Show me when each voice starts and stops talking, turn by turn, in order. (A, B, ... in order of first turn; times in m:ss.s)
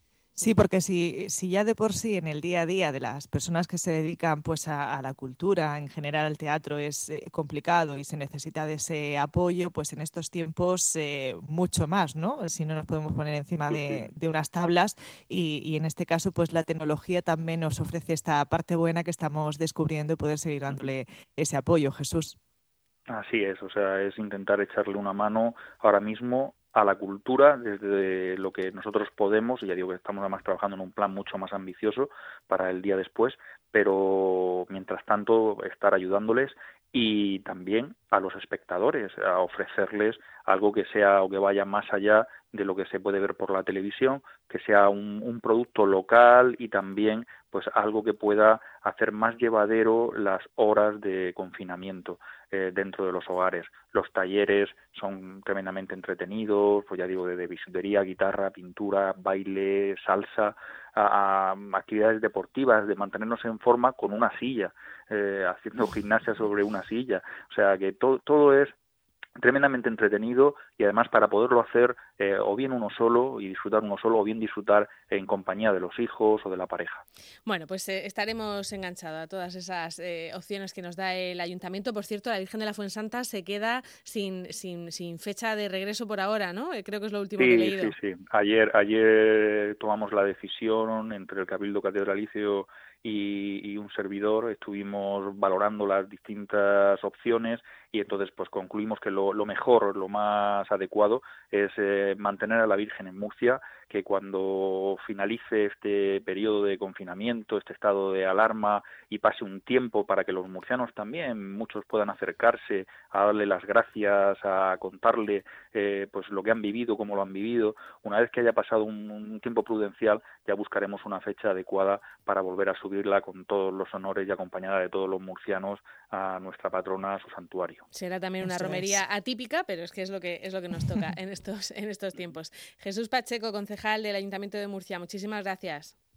0:00.4-0:22.3 A
0:13.7-0:14.1 B
0:23.1-1:08.7 B
1:09.4-1:17.0 B
1:17.4-1:27.9 C
1:27.4-2:07.8 B
2:07.9-2:16.0 C
2:08.4-2:09.0 A